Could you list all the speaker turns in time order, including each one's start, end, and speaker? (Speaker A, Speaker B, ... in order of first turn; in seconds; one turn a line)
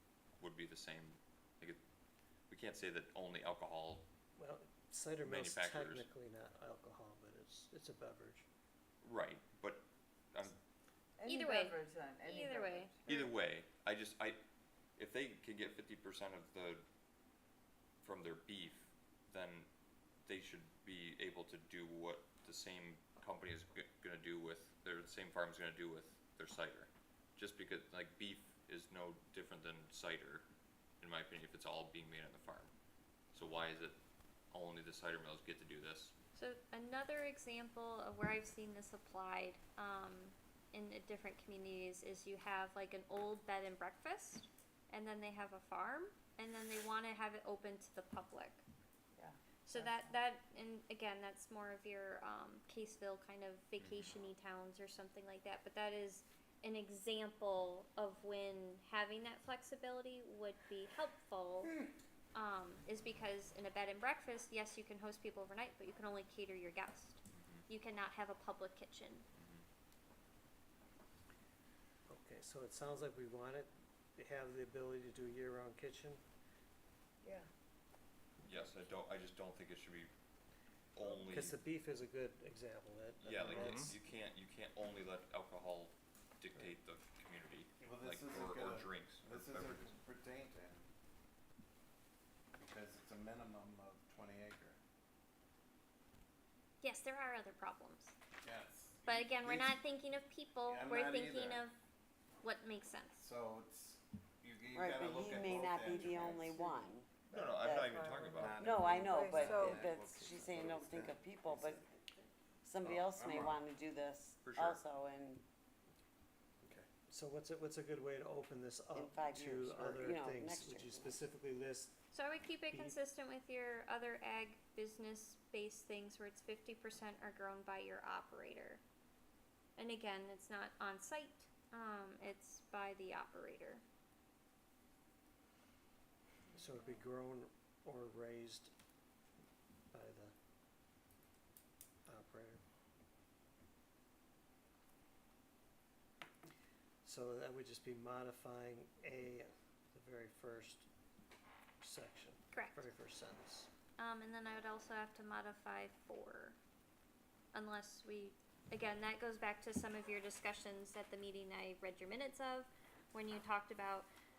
Speaker A: 0.4-1.8
Speaker A: 2.5-4.0
Speaker B: 4.3-8.4
Speaker A: 5.2-6.1
Speaker A: 9.0-10.6
Speaker C: 11.2-13.0
Speaker D: 11.2-13.3
Speaker A: 13.1-14.4
Speaker A: 15.0-16.8
Speaker A: 18.0-19.7
Speaker A: 20.2-30.4
Speaker A: 31.0-32.7
Speaker A: 33.3-34.0
Speaker A: 34.5-36.1
Speaker D: 36.3-48.6
Speaker C: 49.1-50.2
Speaker D: 49.6-61.8
Speaker A: 53.8-54.1
Speaker D: 62.3-69.2
Speaker A: 67.3-67.7
Speaker A: 69.3-69.6
Speaker B: 72.1-76.2
Speaker C: 77.2-77.5
Speaker A: 78.4-80.1
Speaker A: 80.9-81.6
Speaker B: 81.3-83.9
Speaker A: 83.2-90.0
Speaker E: 87.8-90.9
Speaker E: 92.5-94.8
Speaker D: 96.8-98.1
Speaker E: 98.4-99.8
Speaker D: 99.0-101.7
Speaker E: 100.7-101.6
Speaker D: 102.4-103.2
Speaker E: 103.2-106.8
Speaker F: 104.7-107.9
Speaker C: 107.3-108.5
Speaker A: 107.3-108.6
Speaker E: 108.2-111.7
Speaker F: 108.6-111.9
Speaker C: 109.0-109.7
Speaker F: 112.6-115.4
Speaker E: 112.8-113.6
Speaker A: 114.4-114.8
Speaker E: 116.6-116.9
Speaker B: 117.1-122.0
Speaker F: 118.9-121.2
Speaker D: 122.1-128.8
Speaker B: 122.7-123.0
Speaker D: 129.8-133.8
Speaker B: 136.5-138.7
Speaker B: 139.9-140.3
Speaker B: 142.1-142.6
Speaker B: 147.0-150.9
Speaker B: 151.8-153.7
Speaker D: 152.5-152.9
Speaker D: 154.0-156.6
Speaker D: 157.5-164.1